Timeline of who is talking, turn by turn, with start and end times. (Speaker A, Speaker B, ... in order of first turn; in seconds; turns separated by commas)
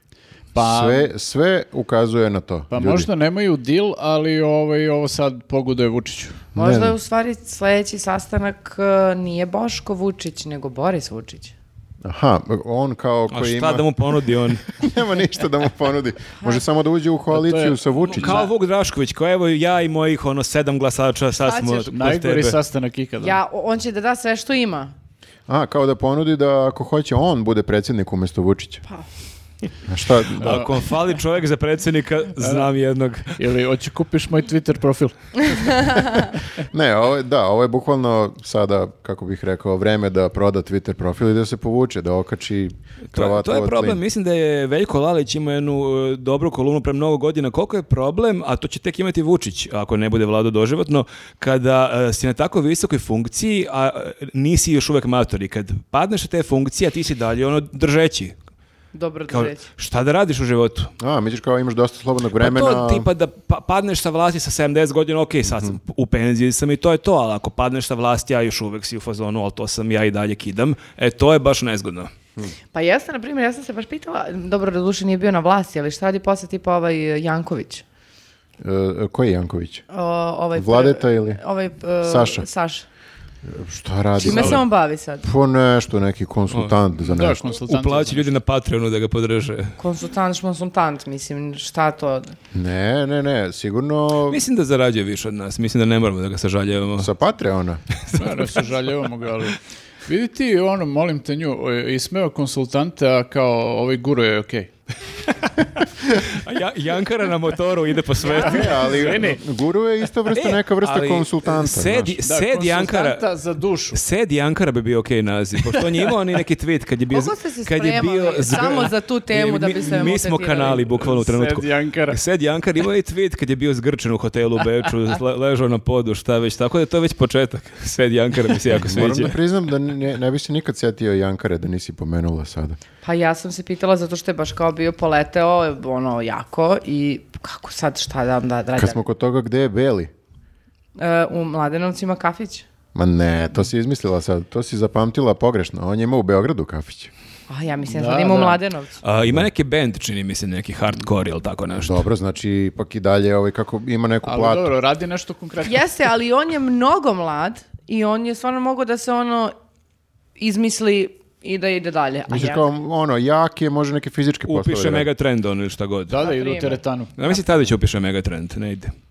Speaker A: 0.5-1.1, Speaker B: 0.5-3.1, Speaker A: 2.7-6.4, Speaker B: 6.5-6.9, Speaker C: 6.5-11.5, Speaker B: 12.0-13.8, Speaker D: 13.3-14.7, Speaker B: 14.7-18.4, Speaker A: 17.3-18.5, Speaker D: 18.1-22.6, Speaker C: 21.4-21.9, Speaker A: 21.9-23.4, Speaker C: 23.2-24.9, Speaker B: 25.5-28.8, Speaker B: 29.9-30.6, Speaker D: 30.4-33.4, Speaker A: 30.4-30.7, Speaker A: 32.4-32.7, Speaker A: 33.4-36.0, Speaker C: 35.5-36.3, Speaker B: 36.6-44.0, Speaker D: 43.1-58.4, Speaker C: 58.9-59.6, Speaker D: 59.3-60.9, Speaker B: 61.0-63.1, Speaker D: 62.4-72.1, Speaker B: 65.5-65.8, Speaker C: 72.7-77.8, Speaker B: 78.6-79.8, Speaker C: 79.9-82.8, Speaker B: 80.5-81.4, Speaker B: 82.0-82.5, Speaker B: 83.4-84.7, Speaker C: 84.2-85.2, Speaker B: 85.2-87.5, Speaker A: 87.1-88.3, Speaker D: 87.6-89.8, Speaker C: 89.8-92.3, Speaker B: 92.5-94.4, Speaker D: 94.3-97.1, Speaker B: 97.0-97.8, Speaker D: 98.0-98.7, Speaker A: 98.2-104.7, Speaker D: 106.2-109.3, Speaker C: 108.2-108.7, Speaker A: 108.3-109.4, Speaker B: 108.4-112.2, Speaker D: 110.3-113.3, Speaker A: 112.2-114.0, Speaker D: 113.9-129.3, Speaker C: 117.1-120.8, Speaker A: 120.7-122.2, Speaker B: 128.7-132.8, Speaker C: 133.0-139.0, Speaker B: 138.8-140.1, Speaker C: 140.9-142.7, Speaker B: 142.9-147.1, Speaker C: 147.5-149.0, Speaker A: 147.9-148.6, Speaker D: 149.0-152.0, Speaker B: 151.7-154.7, Speaker A: 154.2-155.8, Speaker C: 155.6-159.5, Speaker C: 160.4-162.6, Speaker B: 162.3-165.1, Speaker D: 164.5-166.2, Speaker A: 166.1-167.1, Speaker C: 166.2-167.4, Speaker D: 167.2-168.9